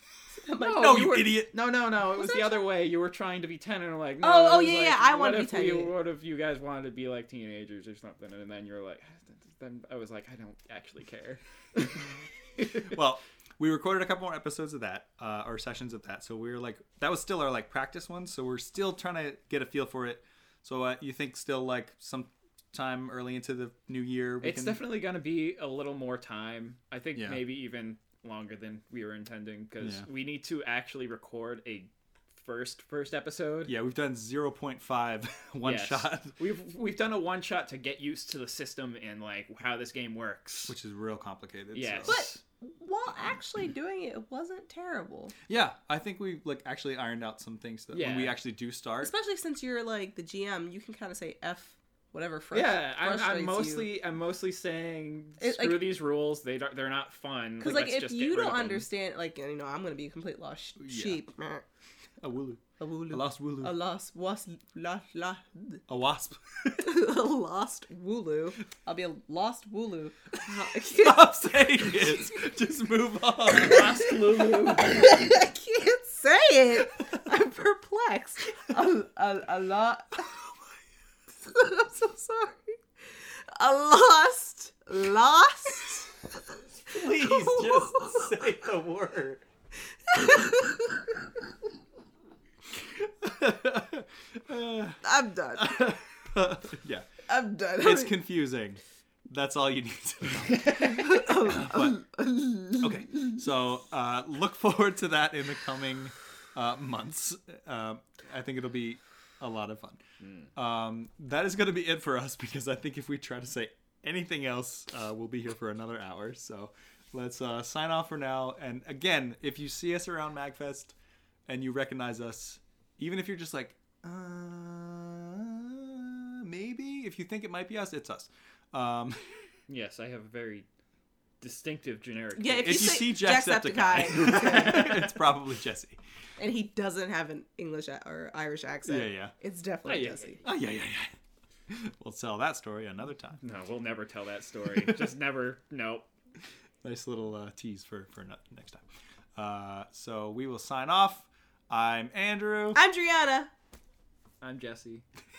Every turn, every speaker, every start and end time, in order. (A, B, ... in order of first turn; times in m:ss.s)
0:00.3-0:01.1 A
0:00.6-0:13.0 B
0:00.8-0:01.5 C
0:02.0-0:02.6 A
0:04.2-0:05.9 A
0:12.7-0:24.8 C
0:24.4-0:33.7 B
0:27.1-0:27.4 C
0:33.6-0:36.3 C
0:35.6-0:40.8 B
0:40.7-0:42.2 C
0:41.7-0:42.4 B
0:42.1-0:45.3 A
0:45.5-0:49.1 C
0:47.9-0:48.4 B
0:49.0-0:53.9 A
0:52.5-0:58.8 B
0:55.4-0:56.0 A
0:57.6-1:01.6 A
1:00.8-1:01.2 C
1:02.2-1:03.7 C
1:02.8-1:05.8 A
1:05.9-1:06.9 C
1:06.8-1:12.0 A
1:10.5-1:14.1 C
1:13.5-1:15.1 B
1:14.6-1:20.3 A
1:21.4-1:22.8 A
1:23.6-1:26.2 A
1:26.8-1:29.4 C
1:26.9-1:28.3 A
1:30.1-1:31.1 A
1:32.8-1:35.0 C
1:35.0-1:35.9 A
1:35.5-1:37.1 C
1:37.3-1:38.1 A
1:37.8-1:42.0 C
1:40.8-1:43.3 A
1:42.8-1:50.0 C
1:50.2-1:50.5 B
1:50.5-2:01.0 C
2:01.5-2:09.2 C
2:09.7-2:10.6 B
2:11.4-2:13.1 B
2:12.4-2:15.1 A
2:12.6-2:16.0 C
2:16.4-2:20.4 A
2:18.8-2:19.3 C
2:19.8-2:20.4 B
2:20.4-2:21.1 C
2:21.7-2:23.4 C
2:23.4-2:26.1 B
2:26.8-2:28.8 C
2:29.4-2:32.8 C
2:32.7-2:33.5 A
2:34.4-2:35.0 B